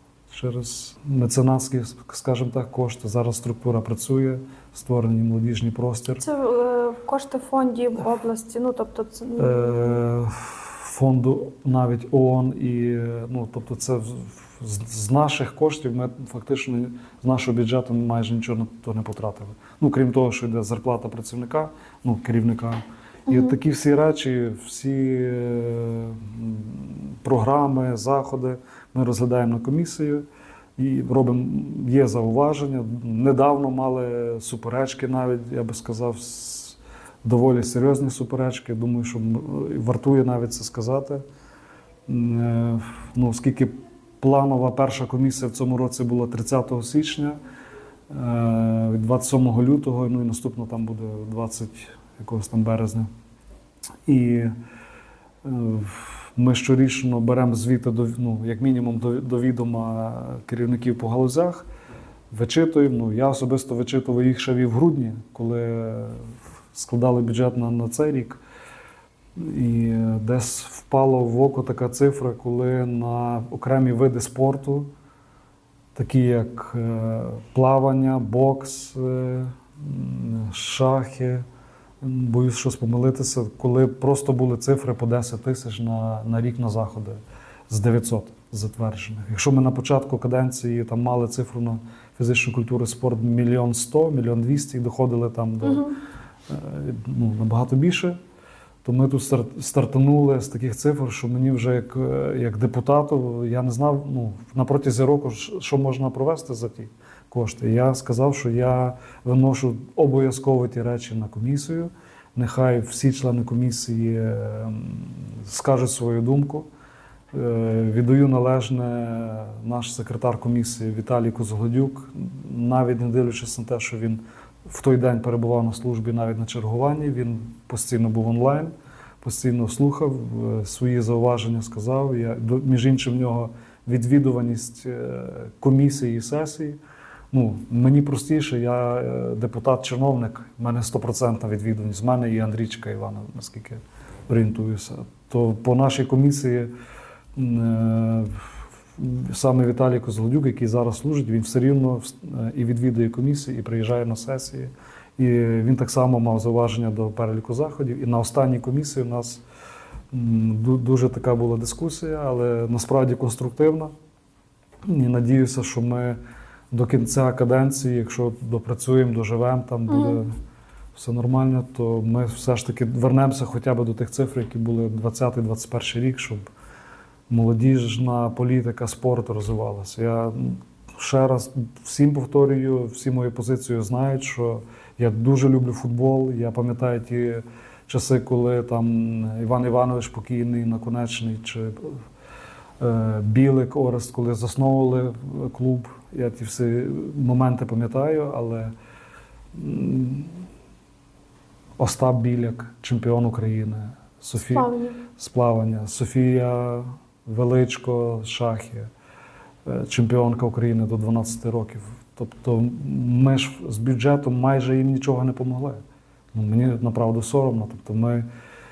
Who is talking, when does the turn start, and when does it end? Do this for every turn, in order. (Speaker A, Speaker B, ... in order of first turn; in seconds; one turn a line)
Speaker A: 0.3-6.2
Speaker B: 6.2-10.0
Speaker A: 9.4-30.2
Speaker B: 23.3-23.6
Speaker A: 30.8-41.2
Speaker A: 42.1-47.4
Speaker A: 48.1-53.1
Speaker A: 54.1-54.5
Speaker A: 55.4-61.6
Speaker A: 62.3-68.4
Speaker A: 69.4-74.9
Speaker A: 76.0-81.5
Speaker A: 82.0-95.9
Speaker B: 95.6-96.0
Speaker A: 96.5-98.2
Speaker A: 98.8-116.7
Speaker A: 117.3-136.8
Speaker A: 137.3-146.7
Speaker A: 147.4-159.4
Speaker A: 160.1-163.9
Speaker A: 164.9-166.2
Speaker A: 166.7-170.3
Speaker B: 169.9-170.2
Speaker A: 170.9-176.4
Speaker A: 177.3-192.0
Speaker A: 192.8-198.7
Speaker A: 199.5-200.4
Speaker A: 201.8-208.9
Speaker B: 204.5-205.0
Speaker A: 209.7-215.8
Speaker A: 216.3-218.3